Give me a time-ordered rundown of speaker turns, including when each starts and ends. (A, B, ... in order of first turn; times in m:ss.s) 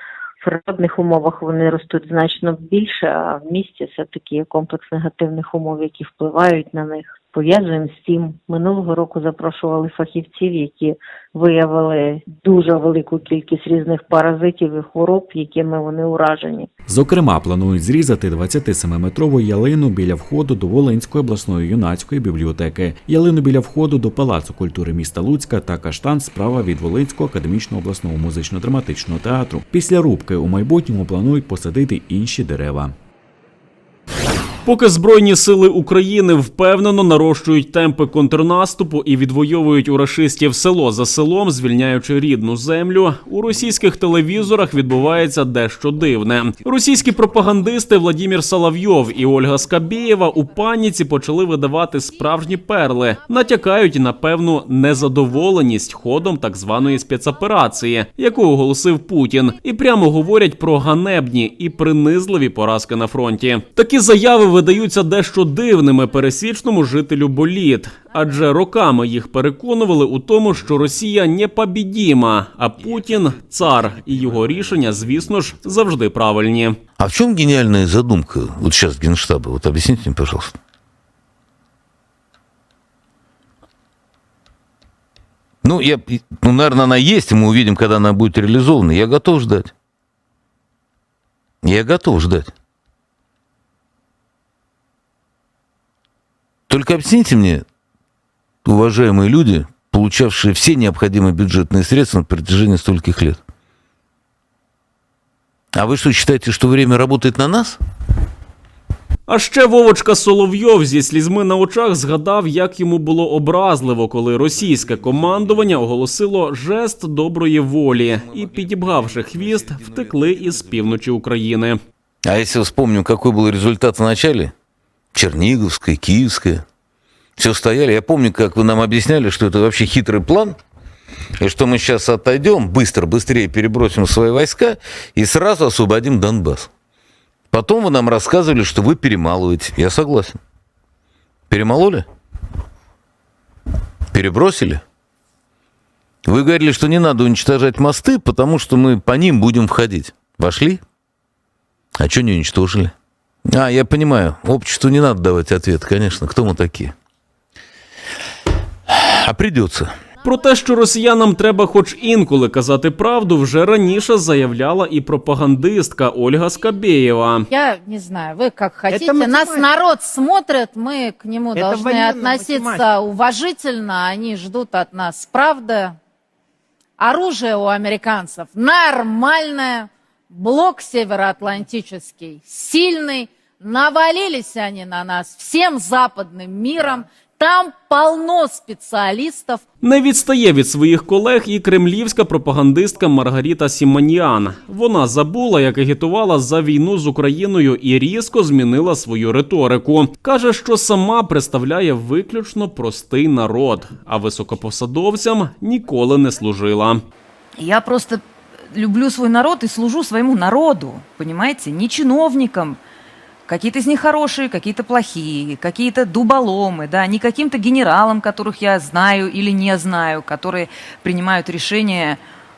0:00.4-0:16.7 A
0:16.9-0:33.0 B
0:34.7-1:16.8 C
1:17.0-1:20.6 D
1:25.6-1:29.7 D
1:31.6-1:32.5 D
1:36.7-1:37.6 D
1:38.6-1:43.4 D
1:45.8-1:47.8 D
1:49.3-2:01.8 C
2:02.2-2:04.5 D
2:05.1-2:06.6 D
2:07.4-2:10.6 D
2:11.4-2:16.7 D
2:17.5-2:20.4 D
2:21.5-2:22.1 D
2:24.1-2:24.8 D
2:26.2-2:30.8 D
2:32.0-2:32.9 D
2:33.5-2:36.9 D
2:39.0-2:40.0 D
2:40.2-2:47.5 C
2:47.5-2:56.0 E
2:57.0-3:09.6 E
3:09.8-3:27.0 C
3:27.6-3:32.8 F
3:33.5-3:42.2 F